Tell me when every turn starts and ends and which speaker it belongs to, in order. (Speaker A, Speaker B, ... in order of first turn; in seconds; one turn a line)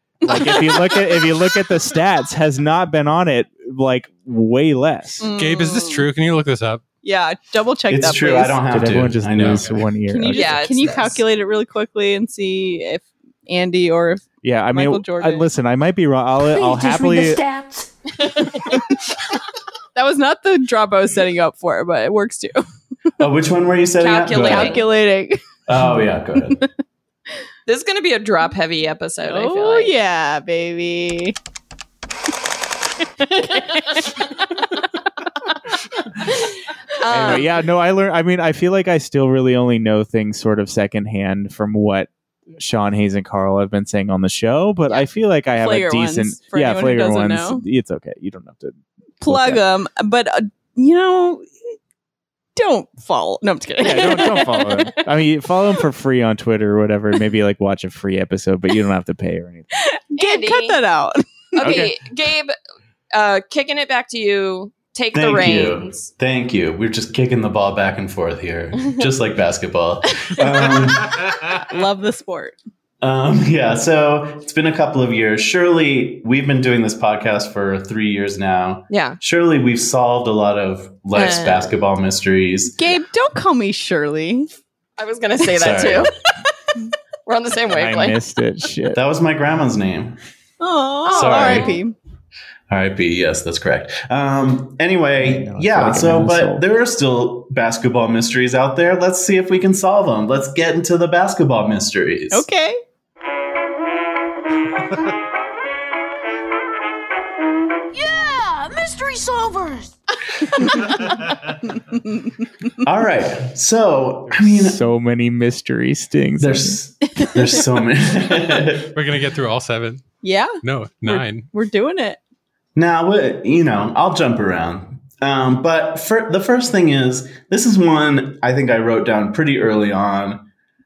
Speaker A: 0.2-1.2
Speaker B: 0.2-5.3
Speaker A: 5.2-6.1
Speaker C: 5.3-6.8
Speaker A: 7.0-8.7
Speaker D: 7.9-9.8
Speaker B: 8.6-11.0
Speaker C: 9.3-9.8
Speaker A: 10.1-15.4
Speaker E: 10.3-11.2
Speaker B: 14.4-17.4
Speaker F: 16.5-18.4
Speaker A: 19.9-22.6
Speaker D: 23.2-24.9
Speaker E: 24.0-24.9
Speaker A: 24.3-25.4
Speaker D: 25.7-26.6
Speaker E: 27.7-29.9
Speaker A: 29.3-31.4
Speaker A: 33.2-34.6
Speaker E: 36.2-37.5
Speaker B: 37.1-49.6
Speaker A: 45.5-47.6
Speaker A: 49.2-51.5
Speaker A: 52.5-55.0
Speaker B: 53.8-59.7
Speaker A: 59.8-61.9
Speaker E: 60.2-60.8
Speaker E: 61.5-62.5
Speaker B: 61.6-61.9
Speaker E: 63.1-66.1
Speaker D: 65.1-71.4
Speaker A: 70.4-70.7
Speaker A: 71.7-72.6
Speaker D: 73.0-82.8
Speaker E: 78.9-79.2
Speaker E: 81.1-81.7
Speaker A: 82.7-84.5
Speaker E: 85.0-86.1
Speaker D: 85.4-86.1
Speaker E: 87.2-88.2
Speaker B: 87.7-89.0
Speaker D: 88.9-90.2
Speaker A: 90.6-91.9
Speaker E: 91.0-91.8
Speaker D: 91.1-91.8
Speaker D: 92.7-102.5
Speaker B: 95.1-96.6
Speaker A: 102.3-102.8
Speaker F: 107.9-109.9
Speaker A: 110.5-111.3
Speaker A: 111.9-112.5
Speaker D: 112.8-114.8
Speaker B: 114.3-116.8
Speaker D: 116.4-119.0
Speaker A: 117.1-117.6
Speaker C: 118.9-121.5
Speaker A: 120.2-122.2
Speaker D: 122.8-130.4